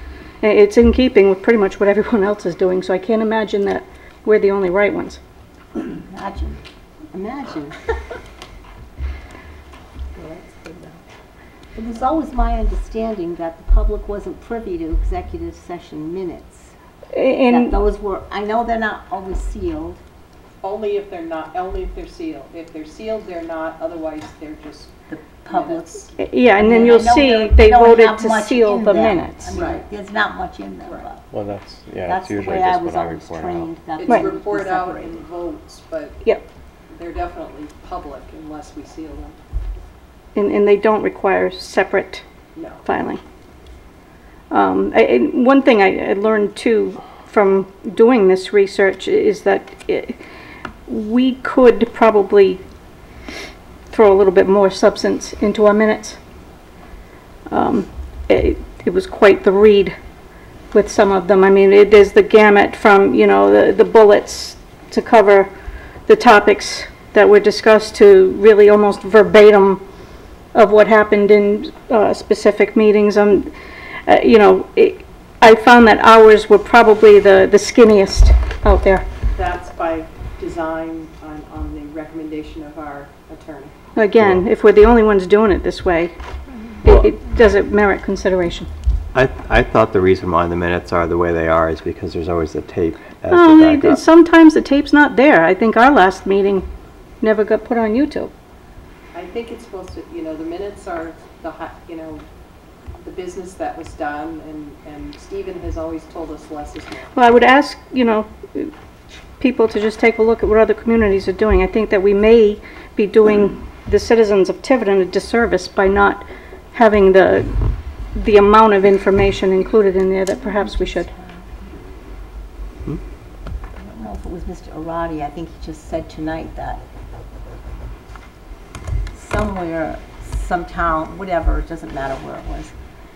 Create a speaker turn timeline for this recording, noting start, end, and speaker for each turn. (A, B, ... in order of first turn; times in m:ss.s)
0:00.4-0:05.2 A
0:05.8-0:06.6 B
0:07.1-0:07.8 B
0:10.2-0:11.0 B
0:11.7-0:16.7 B
0:17.1-0:17.8 A
0:17.5-0:20.0 B
0:20.6-0:24.9 C
0:25.1-0:31.2 B
0:25.5-0:26.1 C
0:26.2-0:29.6 A
0:31.3-0:33.8 D
0:32.0-0:35.2 B
0:34.0-0:36.2 C
0:36.9-0:39.4 C
0:40.3-0:42.2 A
0:42.5-0:42.8 C
0:42.8-0:43.2 A
0:44.5-0:50.2 A
0:50.9-0:52.6 A
0:53.9-0:56.2 A
0:57.5-0:59.9 A
1:00.7-1:05.5 A
1:06.1-1:09.8 A
1:10.5-1:13.5 A
1:14.0-1:19.0 A
1:19.3-1:23.7 C
1:24.0-1:26.1 A
1:26.8-1:28.7 A
1:29.1-1:34.0 D
1:33.3-1:36.7 A
1:37.2-1:38.3 A
1:39.1-1:42.2 C
1:43.0-1:47.1 C
1:47.1-1:48.7 A
1:49.4-1:57.6 A
1:58.1-2:01.1 A
2:00.5-2:01.6 B
2:03.8-2:06.8 B
2:09.1-2:12.7 B